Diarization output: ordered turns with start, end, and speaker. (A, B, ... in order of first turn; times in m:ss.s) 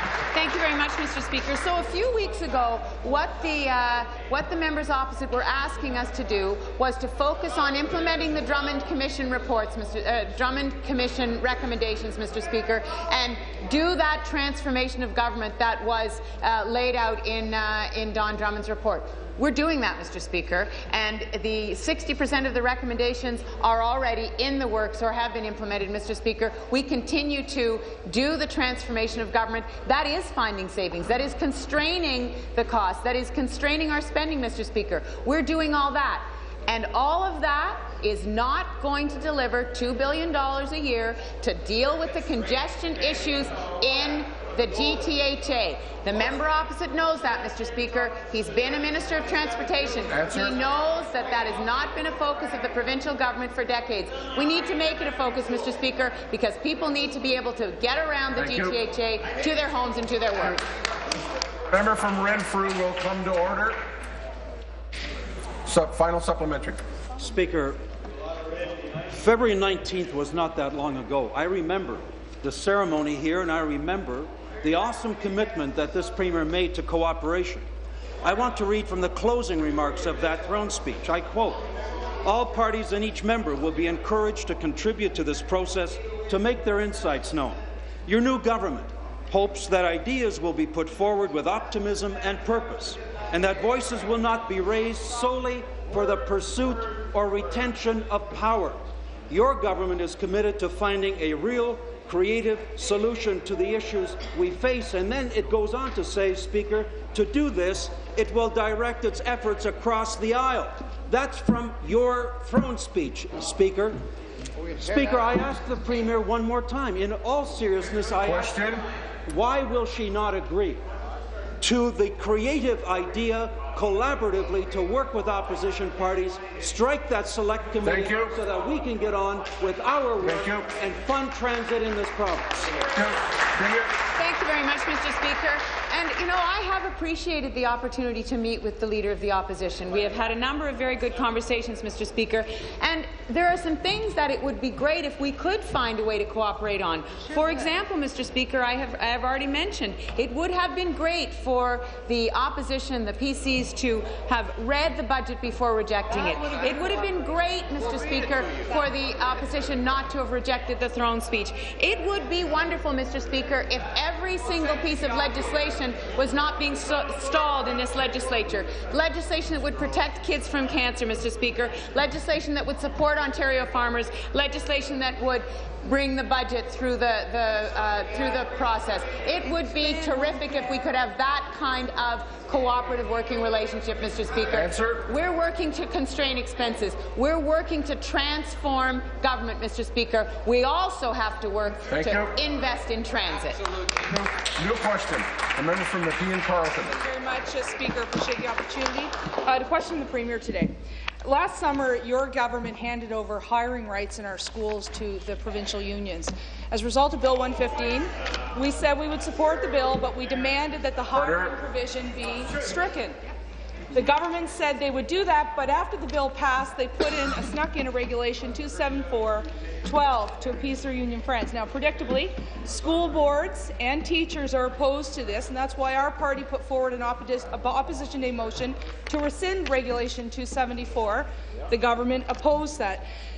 0:00.3-1:00.6 A
0:50.1-0:50.6 B
0:58.3-0:58.8 B
1:01.7-1:03.8 B
1:05.6-1:06.8 B
1:07.2-1:07.8 C
1:09.1-1:17.6 C
1:18.2-1:21.6 C
1:22.2-1:38.8 C
1:39.3-1:54.0 C
1:54.7-1:58.6 C
1:58.2-1:58.8 B
1:59.3-2:00.8 C
2:01.6-2:12.5 C
2:07.8-2:08.3 B
2:10.2-2:10.7 B
2:12.9-2:13.9 B
2:14.2-3:13.6 A
3:04.5-3:05.0 B
3:11.9-3:12.3 B
3:14.0-3:16.9 B
3:16.8-3:33.2 D
3:31.1-3:31.5 B
3:33.9-3:53.0 D